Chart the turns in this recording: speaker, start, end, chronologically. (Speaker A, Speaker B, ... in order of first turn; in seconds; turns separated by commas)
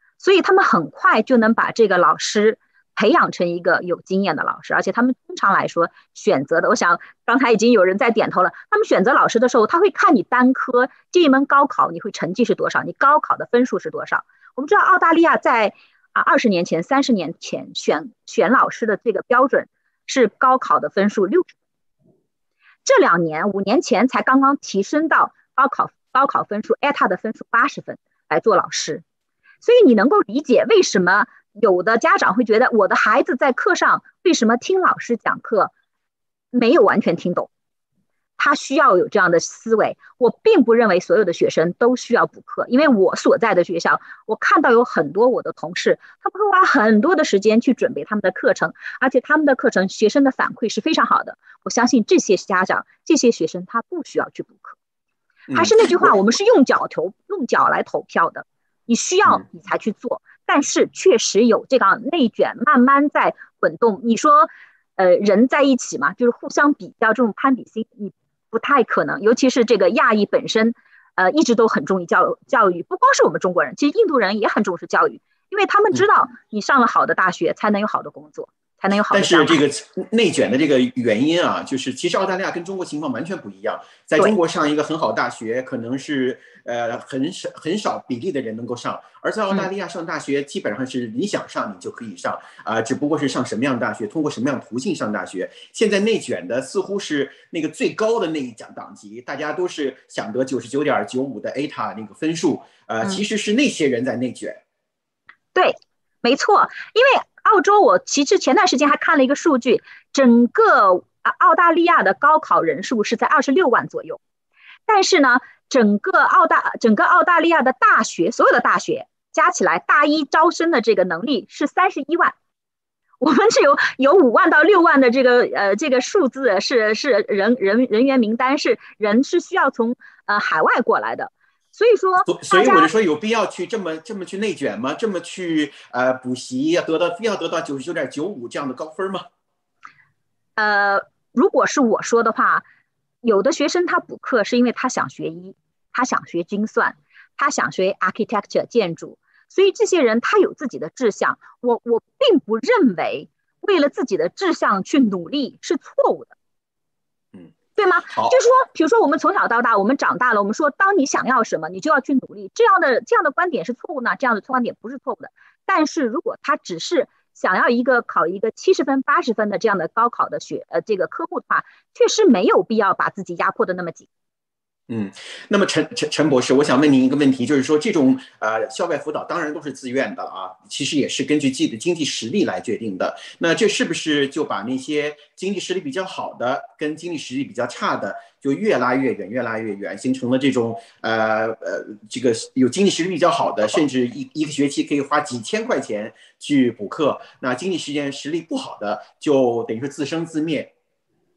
Speaker A: 0.2-21.6, Speaker A: 22.9-29.0, Speaker A: 29.6-35.7, Speaker A: 36.5-37.5, Speaker A: 38.4-54.8, Speaker B: 55.5-56.0, Speaker A: 55.5-79.6, Speaker B: 79.1-104.6, Speaker A: 105.5-114.2, Speaker A: 114.9-122.4, Speaker A: 123.2-132.9, Speaker B: 132.3-139.2, Speaker A: 140.6-142.7, Speaker A: 143.2-156.3, Speaker A: 157.8-174.1, Speaker B: 174.9-200.7